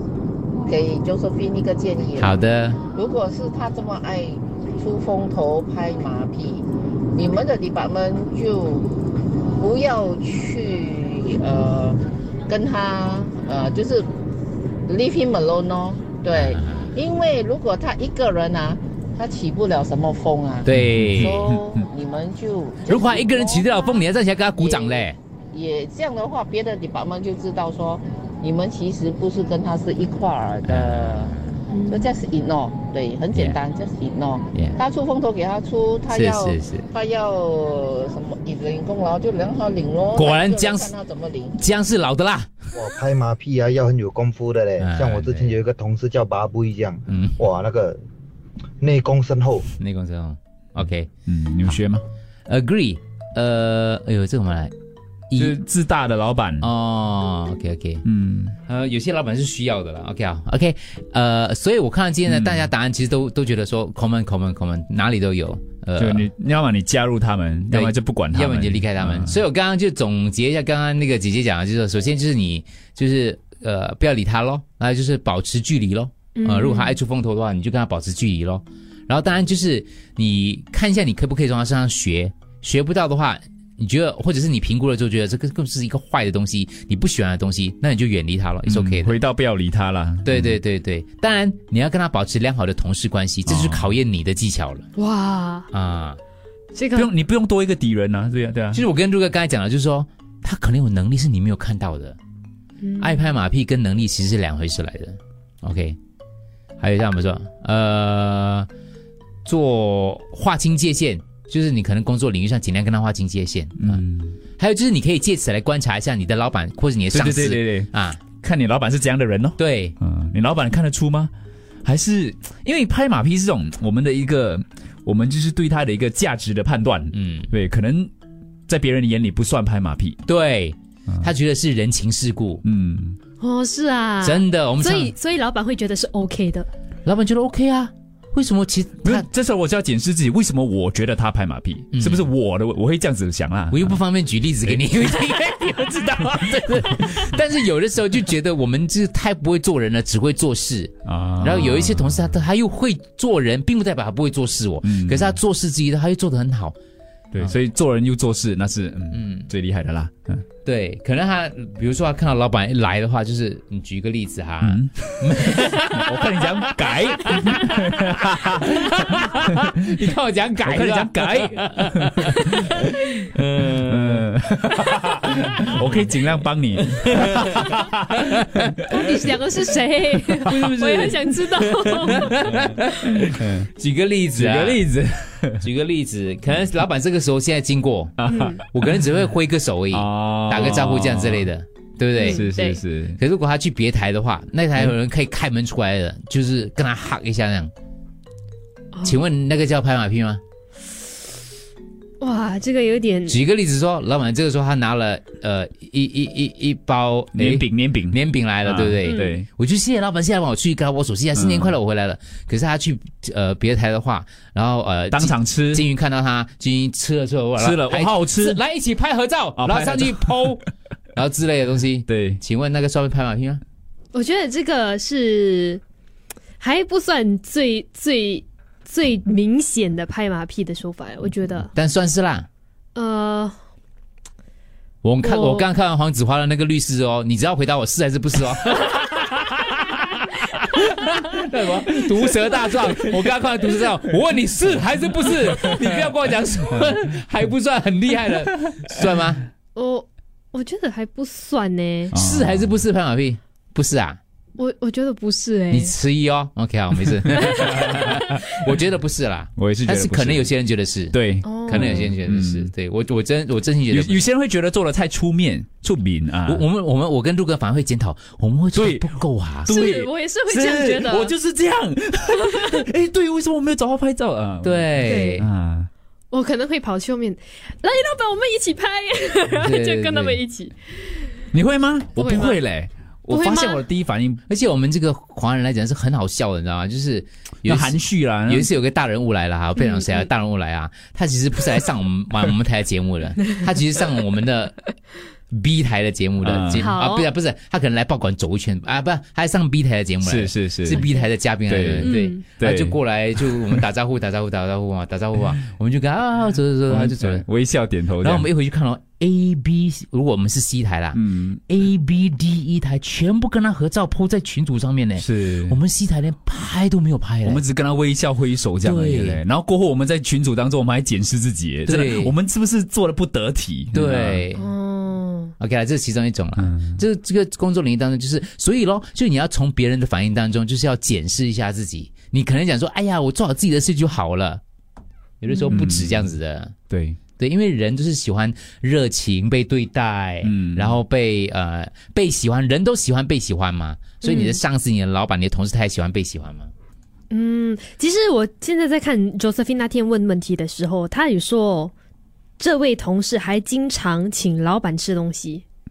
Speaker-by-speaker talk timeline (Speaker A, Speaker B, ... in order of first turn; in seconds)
Speaker A: 0.7-2.3, 2.9-14.1, 14.9-24.0, 24.6-41.6
Speaker B: 2.2-2.9, 16.3-16.9, 20.6-21.4, 22.8-25.2, 30.6-31.6, 33.3-33.6, 34.5-34.8, 36.1-36.9, 40.1-40.9, 41.5-42.7, 44.8-45.6, 47.1-47.4, 49.7-51.1, 52.5-54.7, 55.3-55.5, 56.6-58.0, 58.6-66.3, 67.7-89.2, 90.2-94.9, 95.7-96.2, 98.7-102.2, 103.0-106.0, 106.8-108.7, 109.5-114.0, 114.6-118.3, 119.6-119.9, 127.1-127.5, 130.2-132.6, 134.2-135.1, 137.1-139.2, 141.9-142.3, 143.7-156.8, 159.1-159.5, 160.6-176.1, 176.9-177.6, 178.2-178.7, 181.5-184.9, 185.6-197.7, 199.0-200.4, 203.3-220.6, 221.2-223.6, 231.7-232.5, 235.0-249.4, 252.1-254.2, 255.7-264.2, 266.4-269.8, 274.6-275.4, 279.6-280.4, 284.5-294.8, 295.5-307.4, 308.2-317.6, 318.8-319.4, 321.9-322.3, 323.9-324.6, 325.6-334.6, 335.4-336.7, 337.4-346.7
Speaker C: 20.7-21.9, 51.3-52.0, 55.3-56.7, 58.0-58.5, 62.3-62.7, 66.0-69.4, 88.7-90.6, 93.5-94.0, 96.9-98.8, 113.8-114.4, 117.1-121.3, 121.8-128.1, 128.7-130.2, 132.6-133.2, 139.0-144.0, 151.0-152.2, 154.8-155.4, 157.3-160.5, 164.6-169.1, 170.7-172.7, 173.7-178.0, 180.5-181.2, 183.4-183.7, 184.3-185.6, 188.2-189.1, 189.9-191.5, 192.2-193.2, 207.3-209.5, 211.3-211.7, 215.1-215.8, 217.6-218.6, 219.6-220.7, 222.1-222.4, 252.1-252.8, 259.5-260.6, 261.1-262.7, 263.9-266.6, 268.7-269.1, 269.6-275.9, 281.5-284.4, 287.6-288.7, 296.4-296.9, 300.2-303.8, 306.9-308.5, 311.1-311.6, 315.2-315.8, 317.4-324.4, 326.6-327.0, 335.7-336.3, 336.9-337.2, 340.4-341.0
Speaker D: 31.7-32.1, 76.3-77.0, 95.0-95.7, 96.7-97.1, 102.8-103.3, 133.4-136.7, 178.9-182.9, 188.3-188.6, 192.2-192.8, 198.9-199.2, 202.2-203.4, 209.0-209.3, 224.1-225.8, 226.6-231.7, 232.9-233.6, 235.2-235.7, 249.8-252.1, 254.6-255.9, 257.4-258.2, 261.4-262.1, 269.7-271.3, 275.0-275.4, 276.3-281.3, 282.1-282.6, 283.3-283.8, 289.8-290.3, 296.7-297.3, 302.0-302.4, 324.5-325.5, 335.5-335.8, 344.2-344.6, 347.3-351.9, 352.6-355.6
Speaker E: 42.7-48.0, 48.8-49.7